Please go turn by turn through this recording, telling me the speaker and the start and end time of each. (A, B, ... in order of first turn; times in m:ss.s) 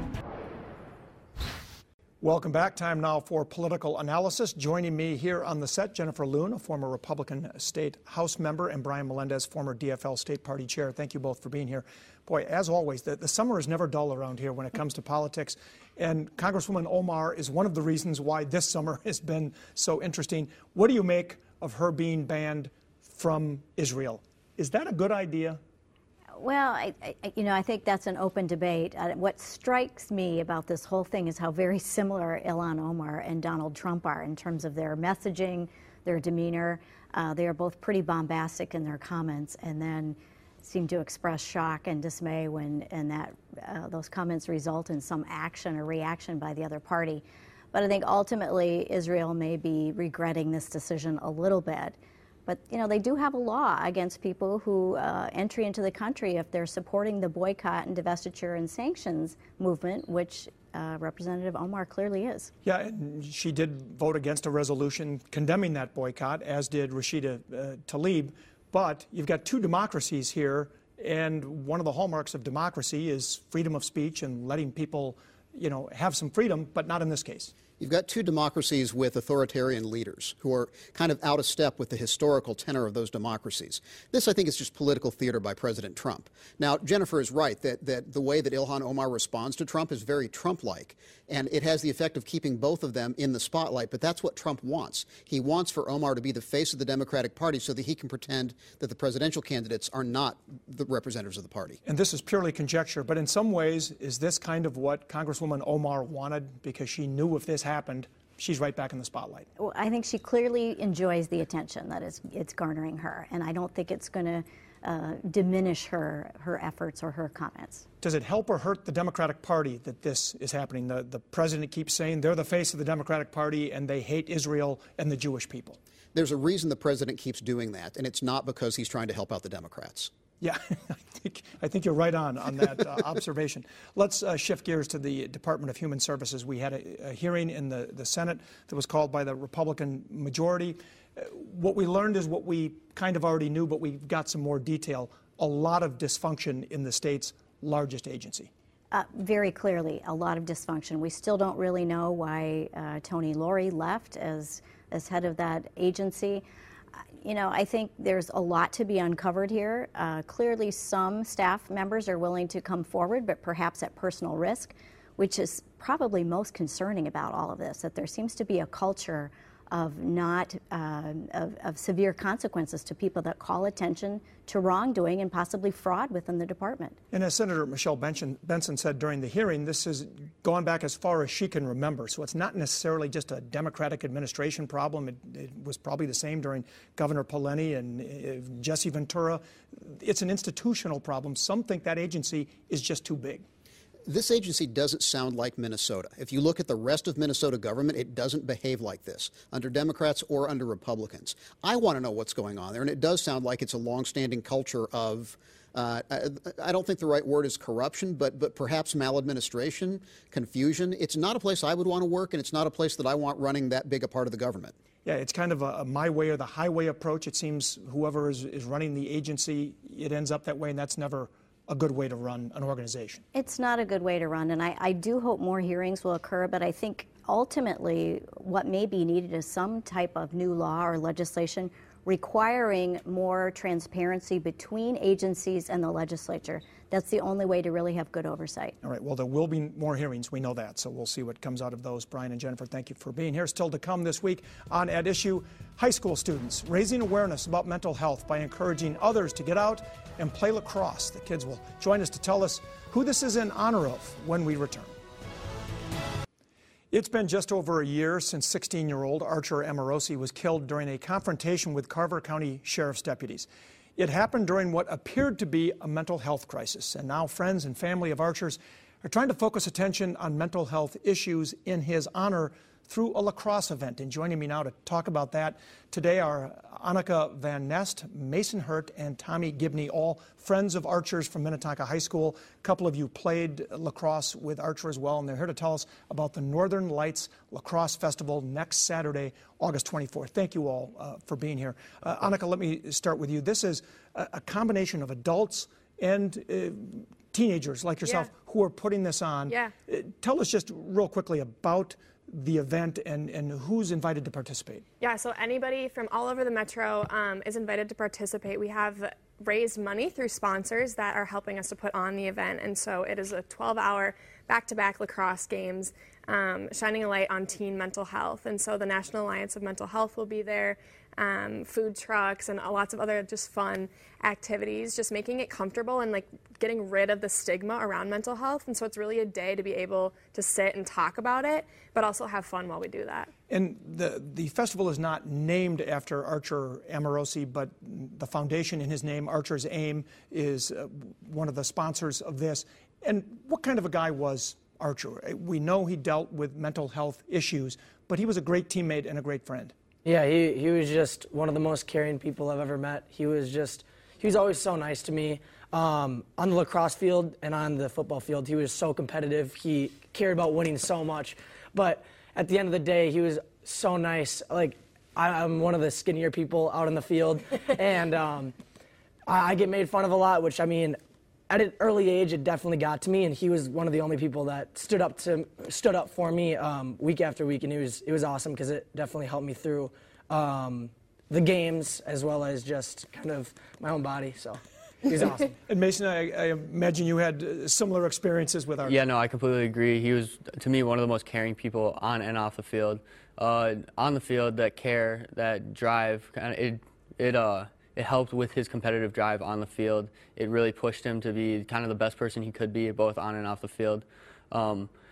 0:02.2-0:25.6 A
0:26.4-1:02.5 B
1:02.6-1:17.5 A
1:17.8-1:41.8 C
1:41.8-1:49.5 A
1:49.6-1:57.8 B
1:58.0-2:05.8 A
2:06.1-2:10.1 C
2:10.4-2:28.5 A
2:28.9-2:36.4 B
2:37.2-2:57.0 B
2:57.1-3:13.4 A
3:14.1-3:34.8 C
3:35.0-3:43.2 A
3:43.3-3:58.8 B
3:58.8-4:15.0 A
4:16.9-5:04.8 A
4:58.0-4:58.3 D
4:59.5-4:59.7 D
5:05.0-5:33.3 D
5:33.5-5:49.7 A
5:50.0-6:08.6 E
6:09.3-6:11.0 E
6:11.5-6:25.6 E
6:25.7-6:29.0 A
6:28.8-6:44.9 F